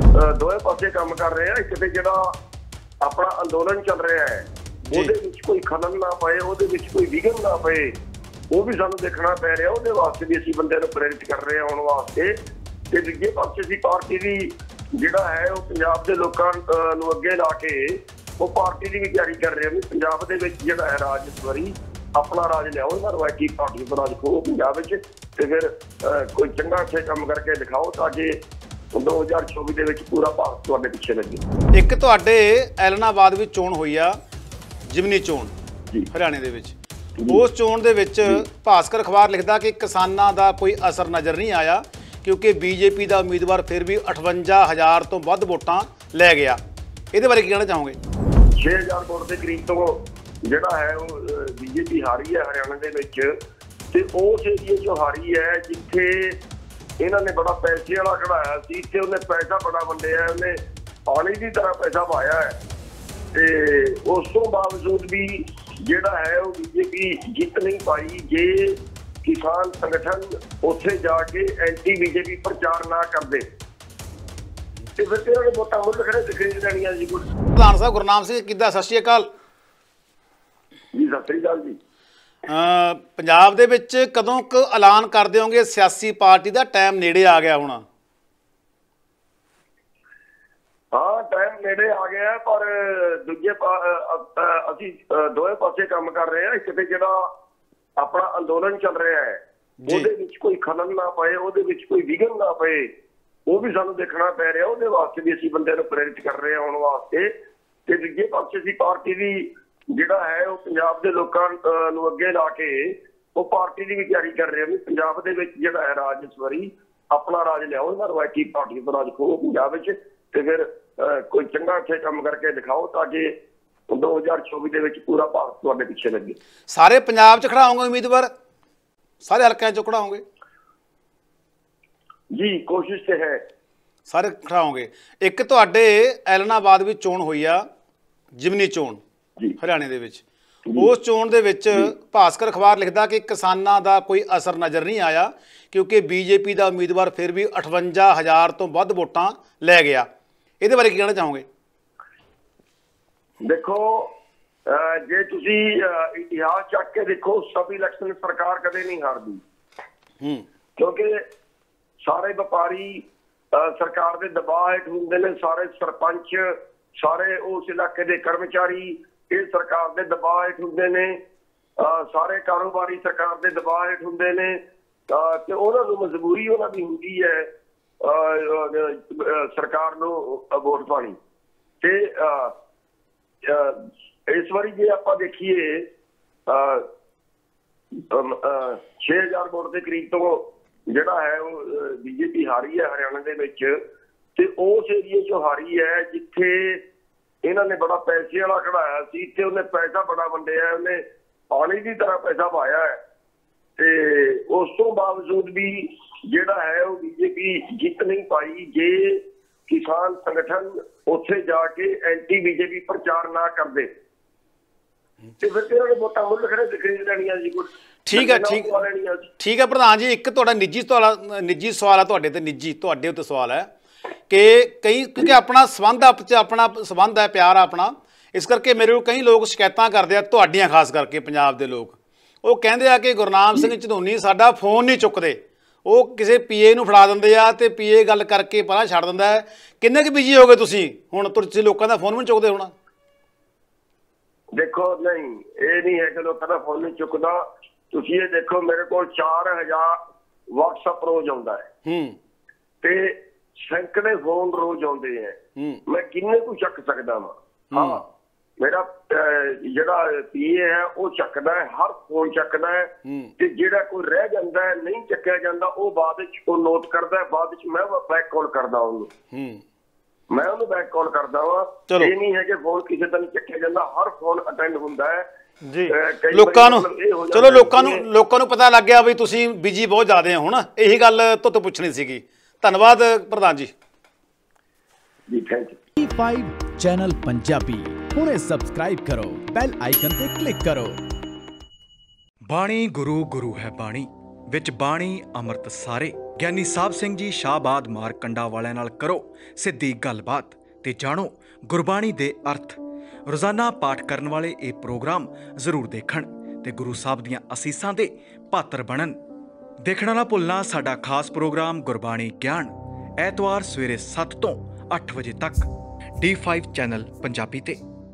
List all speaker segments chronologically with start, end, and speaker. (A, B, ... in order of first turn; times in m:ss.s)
0:00.2-0:02.3 A
0:03.0-0:08.0 A
0:08.5-0:12.4 A
0:12.9-0:28.4 A
0:28.9-0:31.4 A
0:31.7-0:34.2 B
0:34.9-0:35.5 B
0:36.1-0:36.8 B
0:37.3-0:46.6 B
0:47.1-0:48.0 B
0:48.6-0:53.3 A
0:53.9-0:56.4 A
0:57.0-1:00.6 A
1:01.1-1:02.6 A
1:03.3-1:13.5 A
1:15.0-1:17.2 A
1:17.6-1:19.3 B
1:20.9-1:21.8 A
1:22.5-1:27.8 B
1:30.9-1:37.2 A
1:38.0-1:42.9 A
1:39.8-1:40.1 B
1:43.5-1:47.3 A
1:47.9-2:03.3 A
2:03.9-2:06.4 A
2:06.7-2:08.3 B
2:09.2-2:10.2 B
2:12.3-2:13.4 A
2:14.1-2:17.6 B
2:18.4-2:19.0 B
2:19.6-2:20.2 B
2:20.8-2:30.1 B
2:30.6-2:31.5 B
2:33.4-2:34.1 A
2:34.7-2:39.4 A
2:40.8-2:41.2 A
2:42.0-2:51.2 A
2:51.8-2:57.5 A
2:58.0-3:01.2 A
3:01.8-3:02.5 A
3:03.4-3:05.8 A
3:06.5-3:06.8 A
3:08.0-3:13.8 A
3:14.4-3:16.8 A
3:17.4-3:23.0 A
3:23.8-3:33.9 A
3:35.4-3:39.3 A
3:38.1-3:38.8 B
3:39.4-3:43.7 B
3:44.3-4:02.7 B
4:04.6-4:07.4 A
4:07.9-4:10.0 A
4:10.5-4:11.6 A
4:11.9-4:12.2 B
4:12.8-4:18.0 A
4:15.6-4:15.8 B
4:17.7-4:18.0 B
4:18.6-4:29.1 A
4:23.1-4:23.3 B
4:29.3-4:29.6 B
4:30.3-4:35.2 A
4:35.6-4:43.7 B
4:35.9-4:38.0 A
4:45.3-4:45.8 A
4:46.0-4:51.0 C
4:52.5-5:09.2 D
5:09.8-5:15.7 D
5:16.2-5:17.8 D